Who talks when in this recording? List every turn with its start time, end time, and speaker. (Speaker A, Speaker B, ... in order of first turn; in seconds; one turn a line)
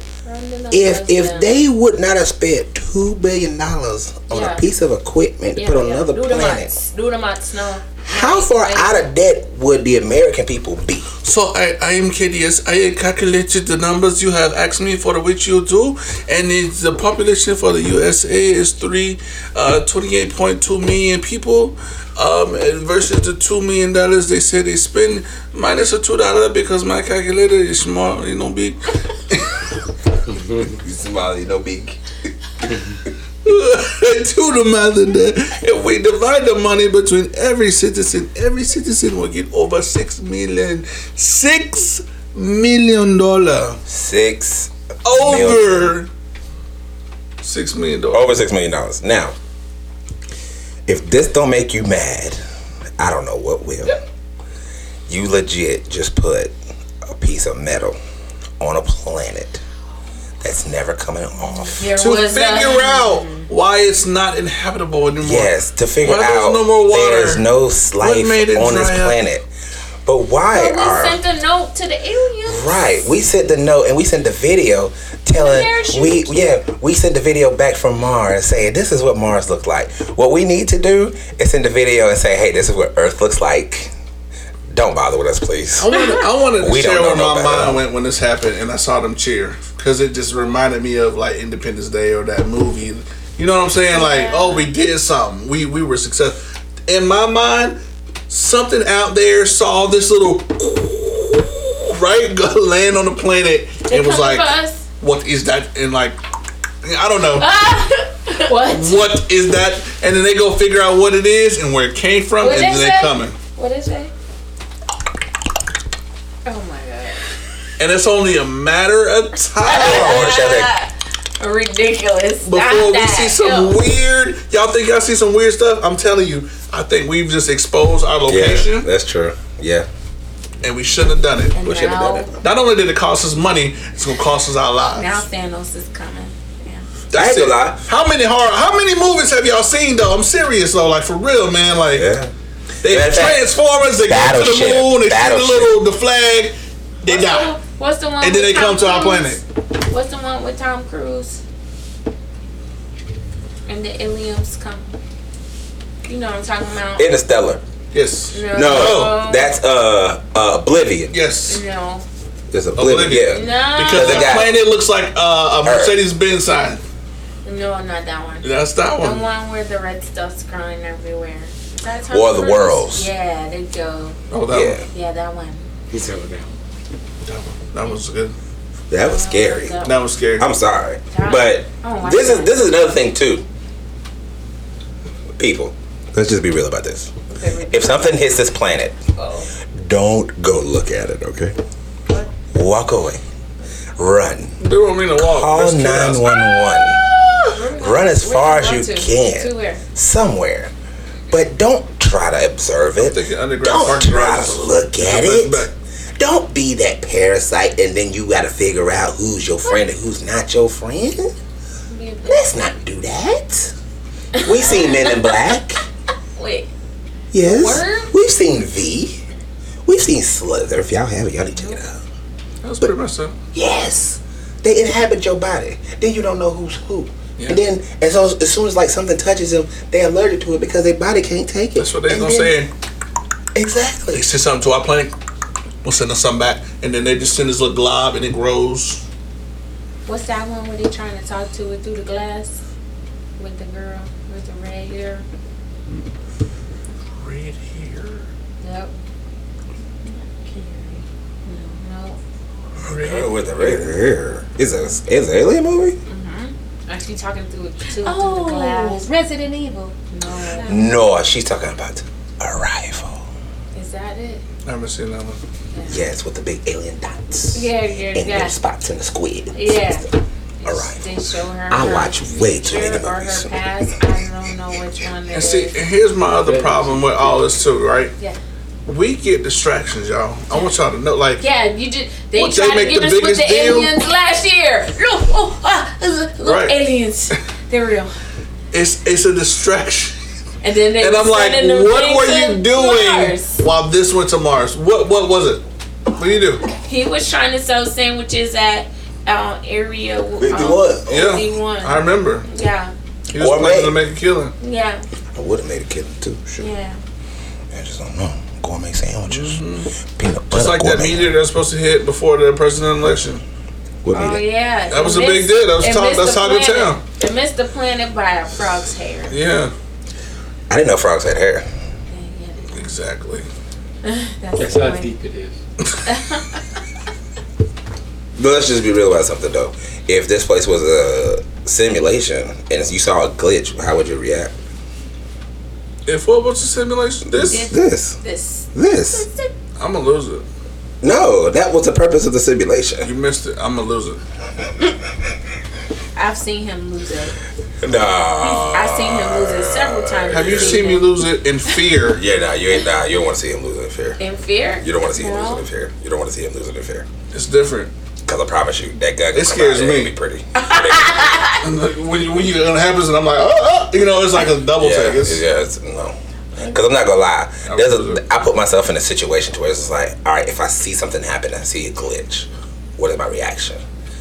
Speaker A: 0.2-1.5
Speaker B: 0.7-6.7
Speaker A: 4.3-4.7
Speaker A: 5.5-9.0
Speaker B: 8.0-11.1
Speaker C: 11.2-29.6
Speaker B: 30.6-32.0
Speaker C: 33.4-43.8
Speaker B: 43.9-46.0
Speaker C: 45.0-46.1
Speaker C: 47.4-48.4
Speaker B: 48.1-49.3
Speaker B: 50.9-52.4
Speaker B: 53.0-54.0
Speaker B: 55.1-56.5
Speaker B: 57.0-58.0
Speaker B: 58.6-59.6
Speaker B: 60.4-61.9
Speaker A: 61.6-63.5
Speaker C: 61.9-67.4
Speaker B: 65.2-69.5
Speaker C: 68.0-69.2
Speaker B: 70.0-71.2
Speaker A: 70.5-73.0
Speaker B: 72.4-83.9
Speaker A: 75.3-76.6
Speaker B: 84.7-85.9
Speaker C: 85.8-106.2
Speaker B: 86.6-87.8
Speaker A: 93.9-94.7
Speaker A: 103.9-104.8
Speaker C: 106.8-107.5
Speaker A: 107.4-109.1
Speaker C: 108.7-113.3
Speaker A: 112.4-114.1
Speaker A: 116.4-117.2
Speaker C: 117.8-120.3
Speaker A: 119.6-123.8
Speaker B: 119.7-120.7
Speaker C: 122.4-128.9
Speaker B: 128.2-129.9
Speaker C: 130.6-131.9
Speaker A: 131.5-132.3
Speaker B: 131.6-132.3
Speaker C: 132.4-135.2
Speaker A: 134.9-136.8
Speaker C: 137.1-142.1
Speaker B: 137.1-137.8
Speaker B: 141.9-142.3
Speaker C: 142.8-147.6
Speaker B: 142.8-143.4
Speaker B: 144.0-145.8
Speaker A: 147.1-151.4
Speaker C: 148.2-149.4
Speaker A: 153.7-154.9
Speaker A: 156.0-157.2
Speaker B: 156.9-157.6
Speaker C: 157.9-159.2
Speaker A: 158.3-159.5
Speaker B: 158.5-161.2
Speaker C: 161.1-161.6
Speaker A: 161.5-162.1
Speaker B: 162.5-164.6
Speaker C: 162.8-166.8
Speaker A: 163.2-164.4
Speaker B: 165.6-166.0
Speaker A: 167.4-174.2
Speaker C: 168.4-169.3
Speaker B: 172.1-173.1
Speaker C: 174.3-174.8
Speaker B: 174.5-174.8
Speaker A: 174.9-175.6
Speaker D: 175.9-176.5
Speaker C: 177.2-178.3
Speaker B: 178.9-179.8
Speaker A: 179.0-180.0
Speaker C: 179.8-180.5
Speaker B: 180.4-183.4
Speaker A: 181.1-182.6
Speaker B: 185.3-187.1
Speaker A: 187.3-188.3
Speaker B: 187.7-188.9
Speaker A: 189.1-189.5
Speaker B: 189.7-191.6
Speaker B: 192.5-193.2
Speaker B: 194.0-194.6
Speaker C: 194.6-196.2
Speaker B: 195.1-197.0
Speaker A: 197.1-199.8
Speaker B: 197.8-200.7
Speaker B: 201.3-211.3
Speaker C: 203.0-205.7
Speaker A: 211.9-212.7
Speaker B: 212.2-213.7
Speaker A: 214.3-215.4
Speaker B: 214.4-215.8
Speaker A: 216.3-216.7
Speaker B: 217.3-219.2
Speaker A: 217.4-218.1
Speaker B: 219.8-222.0
Speaker A: 221.6-221.8
Speaker C: 222.6-223.3
Speaker B: 223.5-232.6
Speaker C: 231.8-232.7
Speaker B: 233.5-234.2
Speaker C: 234.1-235.1
Speaker C: 235.8-239.0
Speaker A: 240.1-242.6
Speaker A: 243.4-245.2
Speaker C: 247.2-248.3
Speaker A: 248.6-248.9
Speaker E: 250.3-251.0
Speaker A: 251.4-252.2
Speaker C: 252.8-253.9
Speaker B: 252.8-256.0
Speaker A: 256.1-259.0
Speaker E: 258.0-260.8
Speaker A: 260.1-260.8
Speaker B: 260.6-263.2
Speaker A: 263.7-264.4
Speaker C: 264.6-265.4
Speaker A: 265.7-266.0
Speaker B: 265.9-270.0
Speaker A: 267.5-268.6
Speaker A: 269.5-275.8
Speaker B: 270.6-271.0
Speaker B: 271.7-273.5
Speaker C: 275.3-278.1
Speaker D: 276.3-277.6
Speaker C: 278.9-281.4
Speaker A: 281.4-288.1
Speaker C: 282.3-283.9
Speaker C: 286.4-286.8
Speaker C: 288.7-290.1
Speaker A: 290.6-293.6
Speaker C: 291.0-296.6
Speaker A: 296.8-302.9
Speaker B: 300.4-301.4
Speaker C: 301.1-302.4
Speaker C: 303.3-304.5
Speaker B: 303.3-304.0
Speaker A: 304.6-305.1
Speaker B: 305.3-306.7
Speaker A: 306.6-307.0
Speaker B: 307.7-309.6
Speaker C: 309.3-309.9
Speaker B: 310.2-311.4
Speaker C: 310.5-313.4
Speaker B: 314.0-314.4
Speaker A: 314.1-319.4
Speaker C: 314.9-317.0
Speaker C: 319.3-319.7
Speaker B: 320.7-321.6
Speaker A: 322.1-322.7
Speaker C: 322.7-323.4
Speaker A: 324.0-325.1
Speaker D: 324.6-325.6
Speaker A: 326.1-326.8
Speaker B: 328.4-334.5
Speaker C: 336.1-337.6
Speaker B: 337.2-338.2
Speaker A: 337.4-339.5
Speaker B: 338.7-339.3
Speaker C: 339.8-340.4
Speaker B: 341.0-343.1
Speaker C: 343.0-344.2
Speaker A: 346.1-347.4
Speaker B: 347.8-350.9
Speaker A: 348.4-351.1
Speaker C: 350.3-352.2
Speaker B: 352.1-354.2
Speaker A: 354.2-355.7
Speaker B: 354.8-357.1
Speaker C: 357.3-357.9
Speaker B: 358.2-361.4
Speaker C: 359.3-360.1
Speaker A: 360.6-361.6
Speaker C: 361.6-365.4
Speaker B: 364.8-373.8
Speaker C: 367.6-368.2